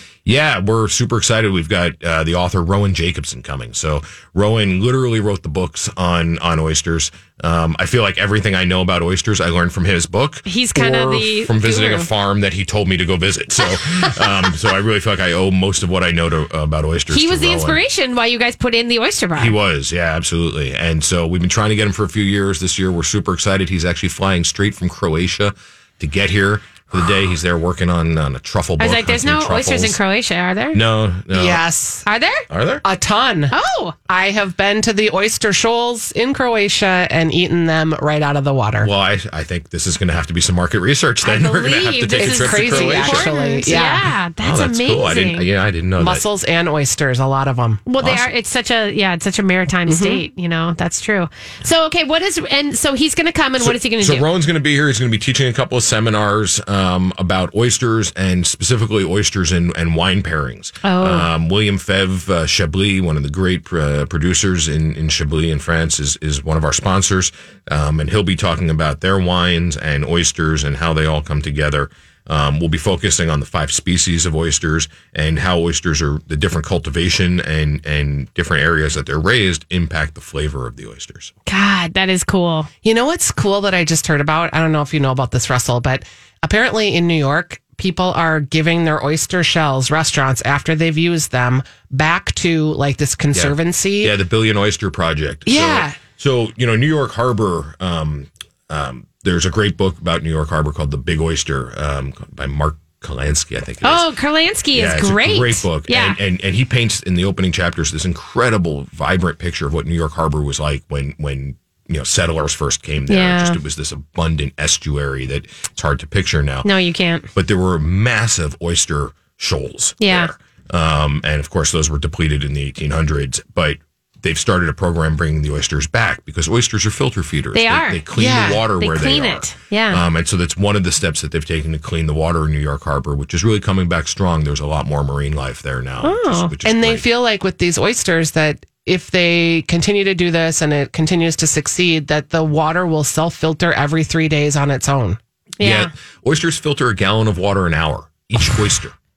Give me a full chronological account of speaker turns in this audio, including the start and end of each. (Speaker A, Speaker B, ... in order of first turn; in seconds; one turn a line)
Speaker A: 0.2-17.8
Speaker B: 10.5-12.1
Speaker B: 13.8-14.5
Speaker B: 17.1-19.6
Speaker A: 19.4-30.0
Speaker B: 28.8-30.8
Speaker A: 30.7-31.6
Speaker C: 31.3-32.1
Speaker B: 32.1-32.5
Speaker A: 32.5-32.9
Speaker C: 32.8-33.5
Speaker B: 33.5-34.0
Speaker C: 34.1-38.9
Speaker A: 38.8-43.3
Speaker B: 41.2-45.5
Speaker C: 42.2-44.1
Speaker A: 44.4-46.2
Speaker C: 46.0-47.9
Speaker B: 47.9-54.3
Speaker A: 48.0-48.3
Speaker C: 49.9-50.2
Speaker A: 53.6-81.3
Speaker B: 60.8-61.3
Speaker B: 81.5-82.7
Speaker C: 82.8-94.1
Speaker A: 93.3-104.1
Speaker C: 95.5-96.0
Speaker B: 103.8-106.2
Speaker A: 104.7-116.7
Speaker B: 113.1-113.6
Speaker B: 116.7-117.3
Speaker A: 117.3-137.1
Speaker B: 120.0-120.3
Speaker B: 127.5-128.1
Speaker C: 128.2-128.6
Speaker B: 128.8-130.0
Speaker B: 136.0-136.5
Speaker C: 136.7-145.2
Speaker B: 145.6-145.9
Speaker A: 145.6-148.9